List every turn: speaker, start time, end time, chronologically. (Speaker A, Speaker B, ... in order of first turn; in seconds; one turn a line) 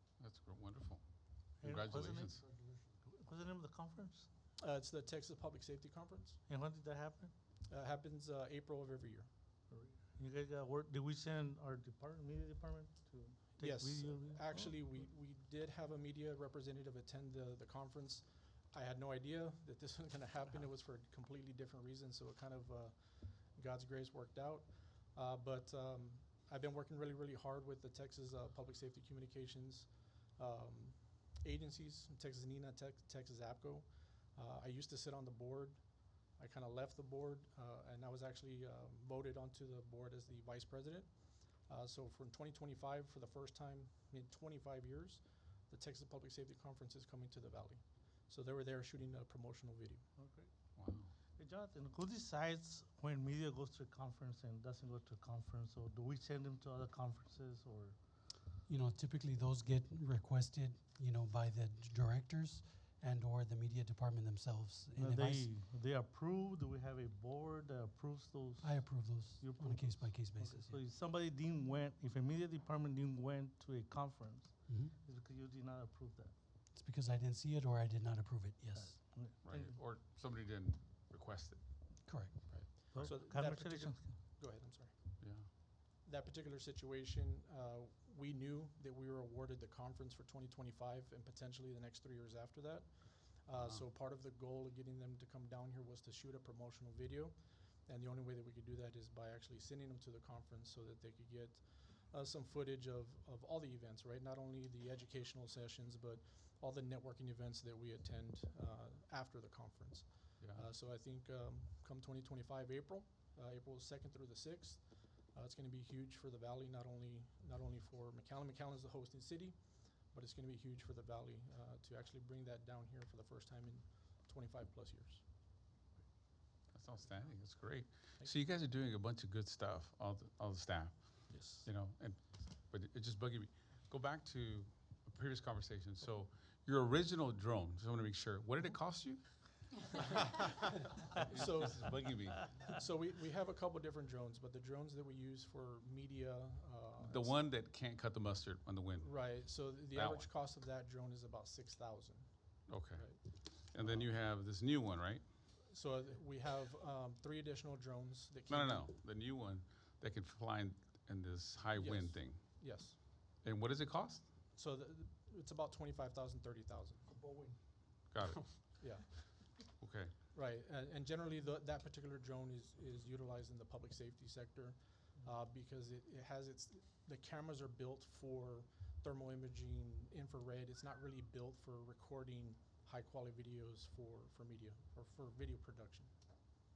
Speaker A: 0.2-2.4
Speaker B: 1.6-4.3
Speaker C: 4.6-6.4
Speaker B: 6.5-7.3
Speaker C: 7.7-9.3
Speaker B: 9.7-14.8
Speaker C: 13.6-50.1
Speaker B: 50.2-50.5
Speaker A: 50.8-51.1
Speaker B: 51.4-58.0
Speaker D: 58.6-65.5
Speaker B: 64.9-76.3
Speaker D: 68.6-70.8
Speaker D: 74.7-74.9
Speaker D: 76.7-79.0
Speaker B: 78.7-79.8
Speaker A: 79.4-83.1
Speaker D: 82.0-82.7
Speaker B: 82.9-84.2
Speaker C: 83.0-125.3
Speaker A: 85.2-85.5
Speaker A: 93.5-93.8
Speaker A: 110.4-110.7
Speaker A: 126.7-140.0
Speaker C: 131.3-131.7
Speaker C: 141.1-147.5
Speaker A: 141.2-142.5
Speaker A: 147.0-150.3
Speaker C: 149.0-154.1
Speaker A: 152.7-155.2
Speaker C: 155.7-158.9
Speaker A: 158.5-162.7
Speaker C: 161.8-163.0
Speaker A: 163.4-164.3
Speaker C: 164.5-167.2
Speaker B: 167.2-167.5
Speaker A: 168.1-168.8
Speaker C: 168.8-169.6
Speaker A: 169.8-170.1
Speaker C: 170.3-186.1